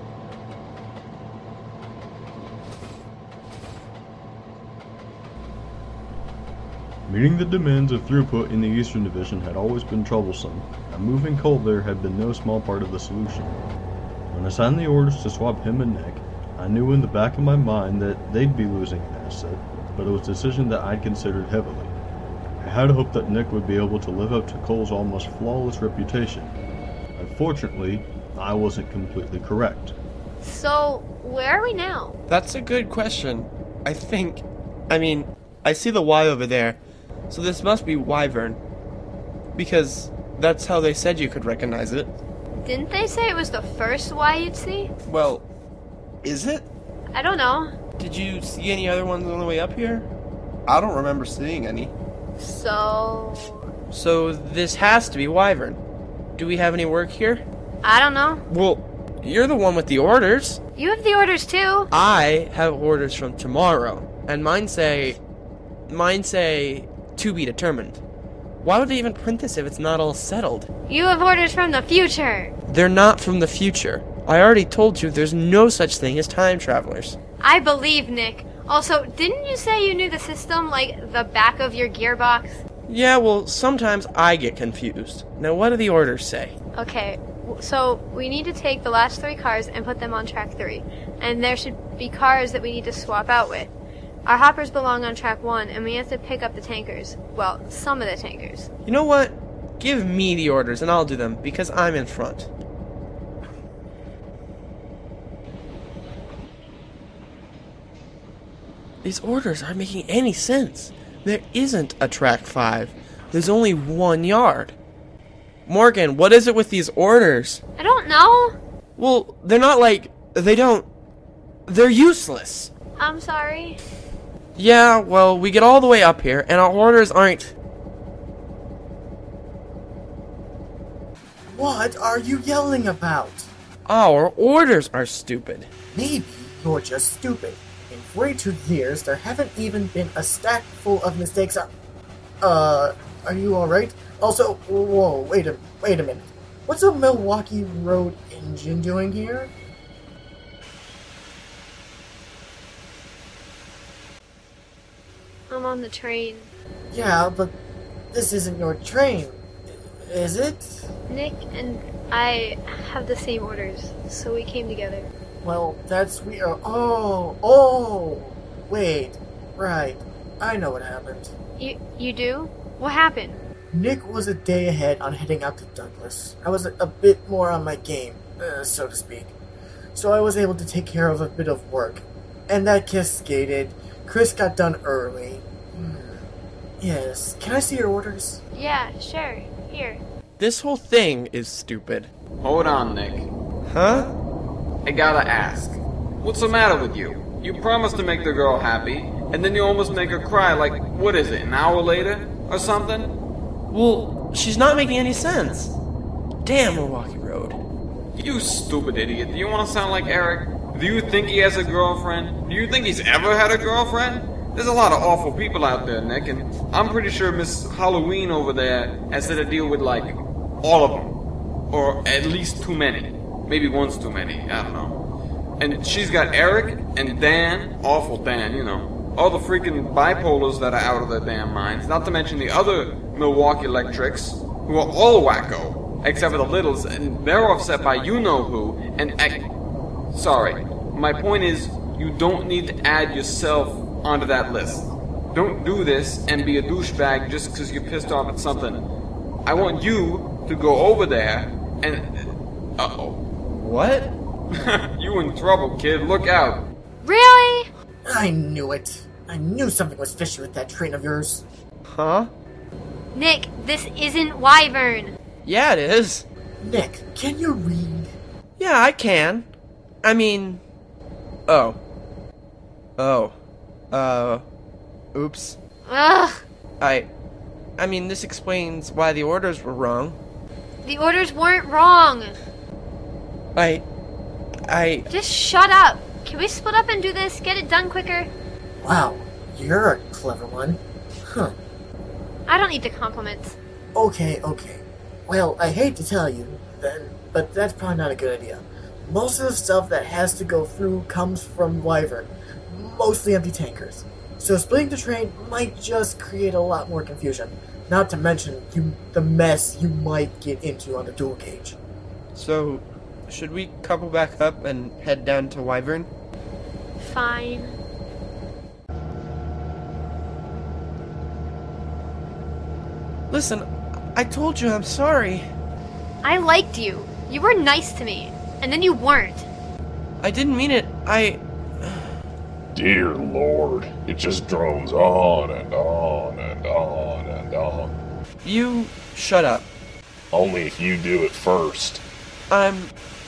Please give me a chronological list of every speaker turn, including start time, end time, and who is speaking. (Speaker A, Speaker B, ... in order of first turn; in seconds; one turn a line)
Speaker A: 7.1-13.6
Speaker A: 14.3-21.9
Speaker A: 22.6-26.6
Speaker A: 27.1-29.9
Speaker B: 30.4-32.2
Speaker C: 32.3-36.8
Speaker C: 37.3-38.6
Speaker C: 39.5-42.1
Speaker B: 42.5-44.9
Speaker C: 45.0-45.4
Speaker C: 46.2-46.6
Speaker B: 47.1-47.7
Speaker C: 48.0-50.1
Speaker C: 50.7-51.9
Speaker B: 52.4-53.7
Speaker C: 53.9-55.8
Speaker C: 56.4-57.4
Speaker B: 57.8-58.4
Speaker C: 58.5-60.6
Speaker B: 60.8-61.9
Speaker C: 61.9-65.2
Speaker C: 65.9-68.0
Speaker C: 68.6-70.7
Speaker B: 70.9-72.5
Speaker C: 72.7-77.2
Speaker B: 77.4-82.6
Speaker C: 82.9-86.5
Speaker B: 86.7-93.7
Speaker B: 94.2-98.7
Speaker C: 98.8-102.5
Speaker C: 109.0-114.7
Speaker C: 115.7-117.6
Speaker B: 117.8-118.5
Speaker C: 119.0-120.9
Speaker C: 121.7-122.7
Speaker B: 123.0-123.8
Speaker C: 124.5-127.5
Speaker D: 131.5-133.5
Speaker C: 133.8-135.7
Speaker D: 135.9-141.7
Speaker D: 142.4-149.5
Speaker B: 155.5-156.5
Speaker D: 156.9-157.5
Speaker D: 158.1-160.8
Speaker B: 161.1-165.1
Speaker D: 165.4-171.3
Speaker B: 171.6-173.4
Speaker D: 173.7-179.3
Speaker D: 179.9-186.2
Speaker D: 186.8-188.4
Speaker B: 188.5-190.0
Speaker C: 190.4-192.1
Speaker E: 192.4-193.3
Speaker C: 193.7-194.1
Speaker E: 194.8-203.1
Speaker C: 203.7-205.8
Speaker C: 206.4-207.6
Speaker E: 208.2-221.1
Speaker E: 221.7-225.0
Speaker E: 225.6-239.5
Speaker E: 240.1-248.8
Speaker E: 249.4-253.2
Speaker C: 253.5-254.1
Speaker E: 254.5-256.6
Speaker B: 257.0-257.7
Speaker D: 258.1-261.4
Speaker C: 261.9-262.3
Speaker B: 263.1-265.1
Speaker C: 265.4-266.2
Speaker D: 266.6-268.1
Speaker C: 268.6-269.5
Speaker C: 270.0-270.6
Speaker C: 271.5-271.8
Speaker C: 273.0-273.3
Speaker C: 273.9-274.4
Speaker C: 275.1-275.6
Speaker B: 275.9-276.4
Speaker C: 276.8-277.1
Speaker C: 277.8-280.2
Speaker B: 280.8-282.4
Speaker C: 283.6-283.8
Speaker C: 284.7-285.1
Speaker B: 285.1-288.3
Speaker D: 288.8-291.5
Speaker B: 292.5-293.6
Speaker D: 293.9-311.8
Speaker C: 312.3-316.1
Speaker B: 317.0-317.8
Speaker C: 323.3-325.5
Speaker B: 326.2-329.5
Speaker C: 330.2-332.2
Speaker F: 332.7-337.9
Speaker C: 338.4-339.7
Speaker F: 340.3-342.0
Speaker C: 342.5-342.9